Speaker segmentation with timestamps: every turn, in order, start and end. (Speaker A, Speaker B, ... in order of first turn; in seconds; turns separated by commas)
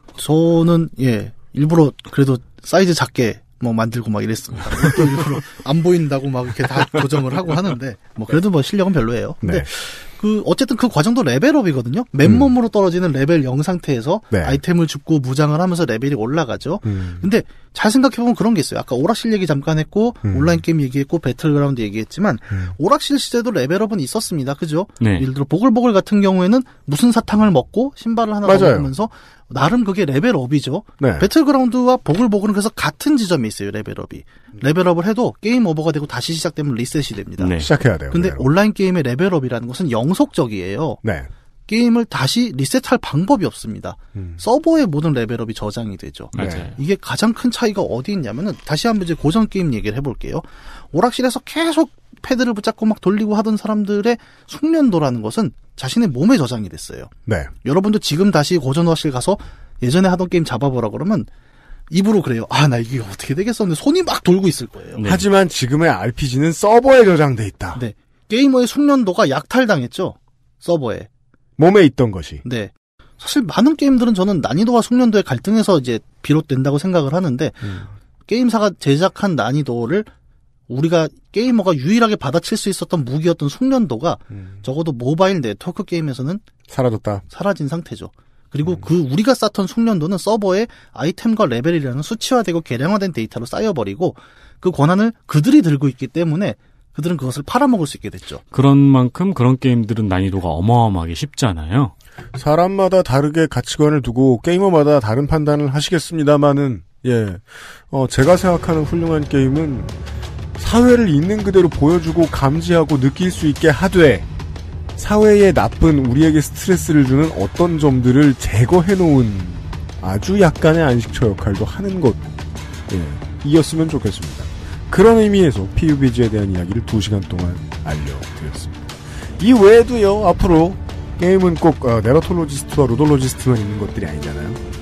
Speaker A: 0.2-41.0, Speaker B: 4.8-5.1, Speaker B: 9.4-9.7, Speaker B: 12.2-12.5, Speaker B: 14.3-14.6, Speaker B: 16.9-17.2, Speaker B: 20.2-20.6, Speaker C: 25.0-25.3, Speaker B: 28.4-28.9, Speaker B: 31.0-31.3, Speaker C: 37.4-37.7, Speaker B: 37.6-38.5, Speaker B: 41.0-41.3, Speaker A: 41.7-57.1, Speaker B: 44.2-44.4, Speaker C: 46.3-46.7, Speaker B: 46.4-46.7, Speaker B: 57.3-57.5, Speaker A: 57.6-61.3, Speaker A: 61.9-65.0, Speaker C: 65.0-65.2, Speaker B: 65.0-67.8, Speaker A: 67.7-71.1, Speaker B: 71.6-72.4, Speaker A: 72.4-80.1, Speaker B: 77.6-77.9, Speaker A: 80.7-86.4, Speaker B: 86.7-87.2, Speaker A: 87.3-98.4, Speaker C: 98.5-101.9, Speaker B: 102.3-109.9, Speaker B: 110.6-114.3, Speaker B: 115.0-122.3, Speaker B: 122.9-134.6